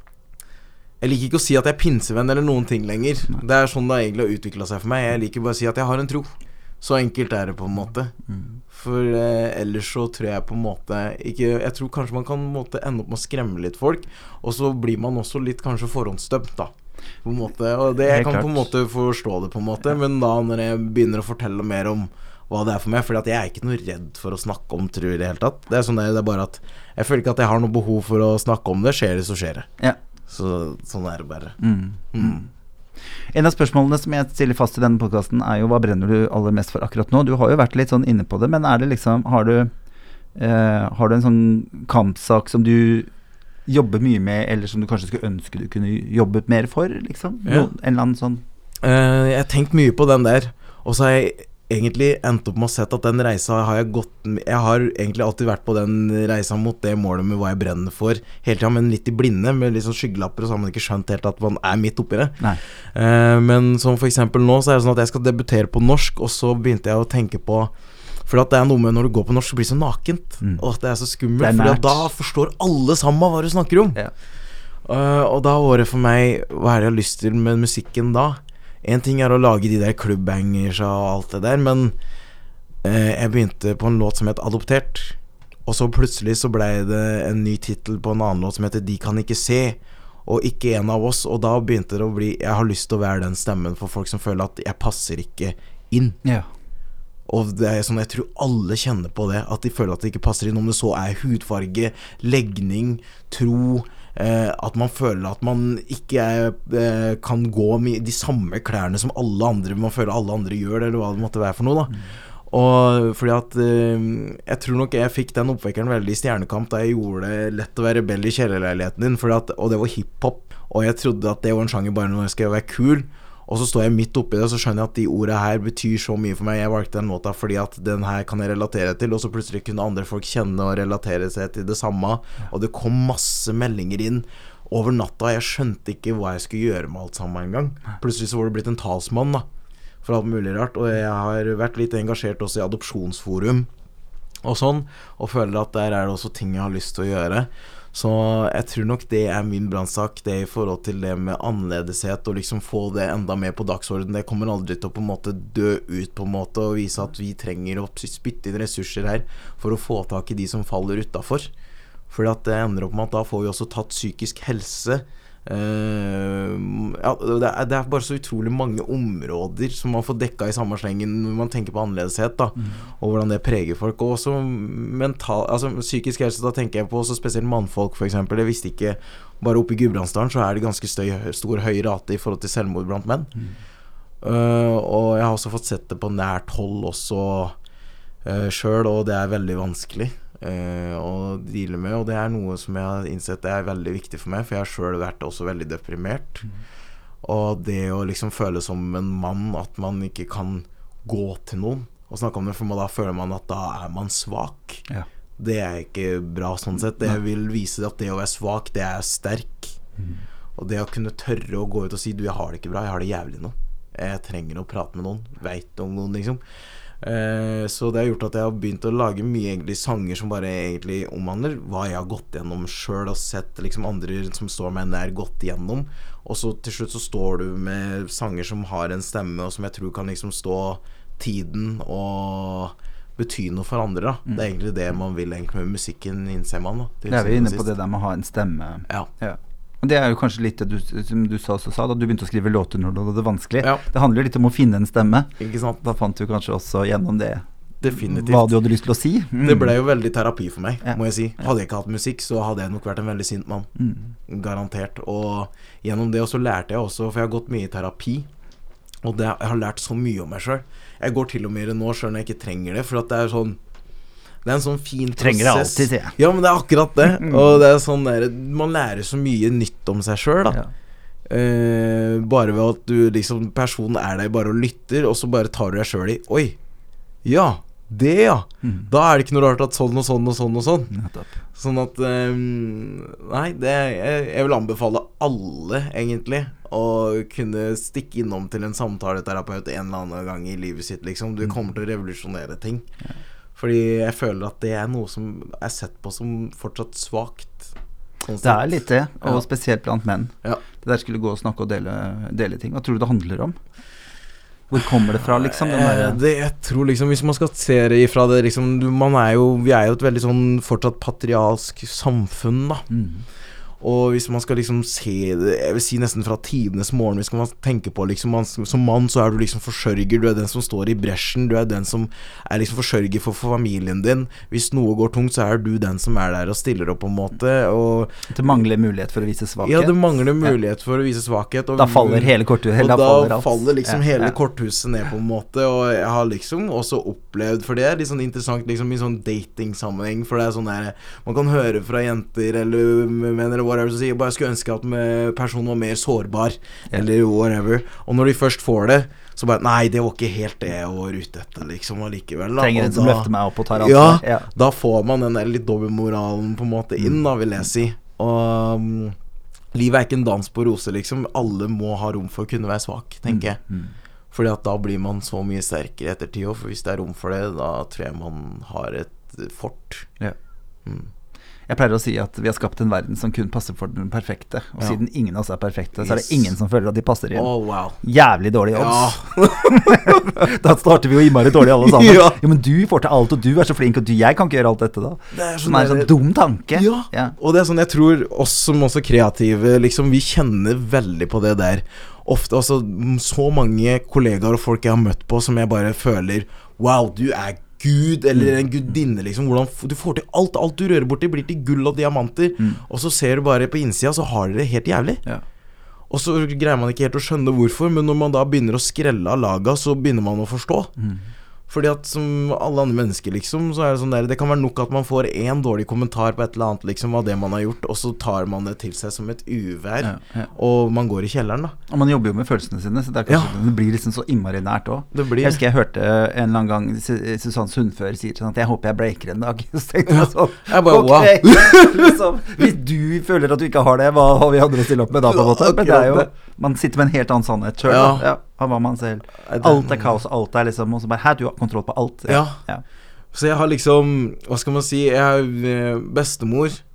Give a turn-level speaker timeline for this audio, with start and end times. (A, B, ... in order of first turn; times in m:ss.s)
0:01.0-0:08.2 A
0:08.7-0:16.7 A
0:17.2-0:29.7 A
0:18.1-0:18.7 B
0:30.3-0:31.6 A
0:31.6-0:32.5 B
0:32.1-0:32.4 A
0:33.3-0:39.7 B
0:40.4-0:43.1 B
0:43.7-0:48.4 B
0:48.8-1:07.7 A
1:08.2-1:14.0 A
1:11.4-1:12.1 B
1:14.8-1:22.0 A
1:22.8-1:36.2 A
1:37.3-1:52.0 A
1:52.5-2:19.5 A
2:20.0-2:23.7 A
2:24.4-2:41.5 A
2:42.1-3:03.3 A
3:04.2-3:07.5 A
3:08.2-3:16.4 A
3:17.2-3:24.8 A
3:25.4-3:29.8 A
3:30.6-3:36.4 A
3:37.0-3:57.7 A
3:57.1-4:05.3 B
4:05.4-4:05.8 A
4:05.8-4:09.7 B
4:07.8-4:08.5 A
4:09.4-4:13.7 A
4:13.8-4:14.1 B
4:14.3-4:18.3 A
4:19.0-4:23.6 A
4:24.4-4:30.6 A
4:25.2-4:26.2 B
4:31.3-4:36.6 A
4:37.2-4:40.9 A
4:40.9-4:41.4 B
4:41.5-4:52.9 A
4:53.6-4:59.4 A
4:58.4-5:03.6 B
5:04.7-5:06.2 B
5:05.2-5:12.9 A
5:12.9-5:13.2 B
5:13.8-5:28.2 A
5:28.3-5:30.5 B
5:29.6-5:59.2 A
5:31.8-5:34.4 B
5:52.6-5:54.5 B
5:59.7-6:03.6 A
6:03.3-6:03.9 B
6:04.3-6:10.1 A
6:11.7-6:27.4 B
6:16.0-6:16.5 A
6:17.3-6:18.0 A
6:18.8-6:20.3 A
6:21.7-6:22.4 A
6:25.3-6:26.1 A
6:26.7-6:45.2 A
6:46.1-6:50.9 A
6:51.0-6:51.2 B
6:51.7-7:01.8 A
7:00.0-7:00.5 B
7:01.9-7:22.8 B
7:03.3-7:03.5 A
7:05.1-7:05.6 A
7:10.1-7:12.1 A
7:15.3-7:16.3 A
7:17.9-7:18.3 A
7:19.4-7:20.1 A
7:22.3-7:22.6 A
7:23.3-7:26.8 A